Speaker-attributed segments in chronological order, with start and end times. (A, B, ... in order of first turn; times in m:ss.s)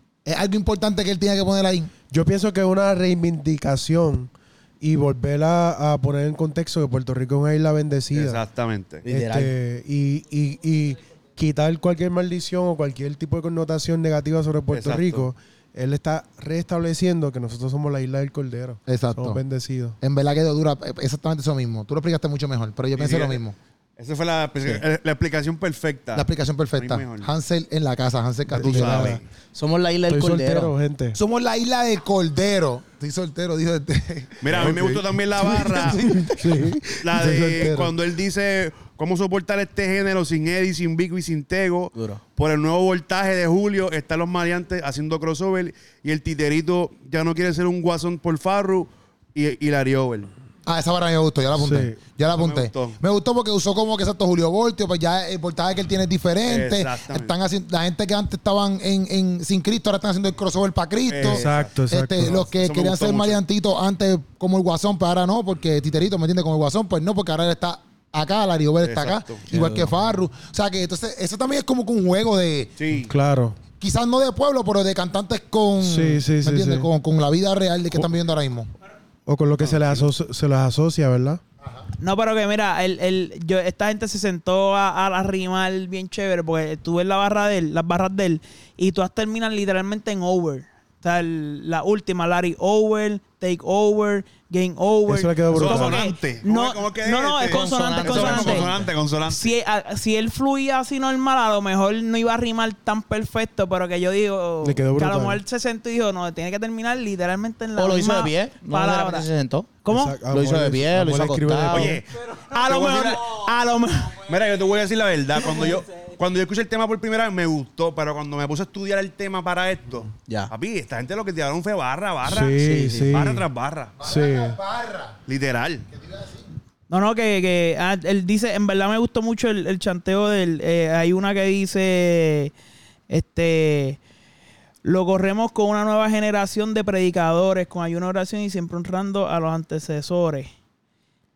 0:00.2-0:01.9 A
0:02.1-0:08.4 B
0:08.1-0:09.0 C
0:09.0-0:09.5 D
0:09.1-0:20.0 B
0:14.7-0:15.3 C
0:18.9-0:19.4 A
0:20.0-0:23.6 A
0:23.0-0:23.4 C
0:24.0-0:27.3 C
0:26.1-0:29.2 A
0:28.5-0:29.2 B
0:28.6-0:29.2 C
0:29.5-0:30.7 D
0:30.1-0:31.2 B
0:31.2-0:36.8 A
0:34.4-0:36.0 C
0:36.0-0:37.9 B
0:37.0-0:50.3 C
0:41.9-0:42.2 D
0:50.6-1:12.7 A
0:51.6-0:52.0 B
0:52.3-0:53.0 C
0:56.4-0:57.3 C
1:01.1-1:03.4 C
1:01.2-1:02.4 B
1:08.8-1:09.4 C
1:09.5-1:09.9 B
1:12.8-1:13.1 C
1:13.0-1:13.6 B
1:13.8-1:18.7 A
1:15.8-1:16.9 B
1:19.3-1:21.4 B
1:19.6-1:20.1 C
1:22.0-1:38.7 E
1:35.1-1:36.0 B
1:35.5-1:39.5 C
1:37.4-1:38.8 D
1:38.1-1:38.6 A
1:39.3-1:49.3 E
1:44.6-1:45.4 B
1:47.8-1:49.8 D
1:49.8-1:50.2 E
1:49.9-1:52.0 B
1:50.3-1:52.0 D
1:51.7-1:53.3 C
1:52.4-1:54.2 E
1:54.2-2:03.9 C
2:00.3-2:00.5 D
2:02.2-2:03.4 B
2:02.6-2:03.2 D
2:04.0-2:05.2 A
2:04.0-2:04.6 B
2:05.3-2:05.8 C
2:05.9-2:06.4 A
2:06.9-2:12.5 E
2:13.1-2:14.0 E
2:14.8-2:20.5 E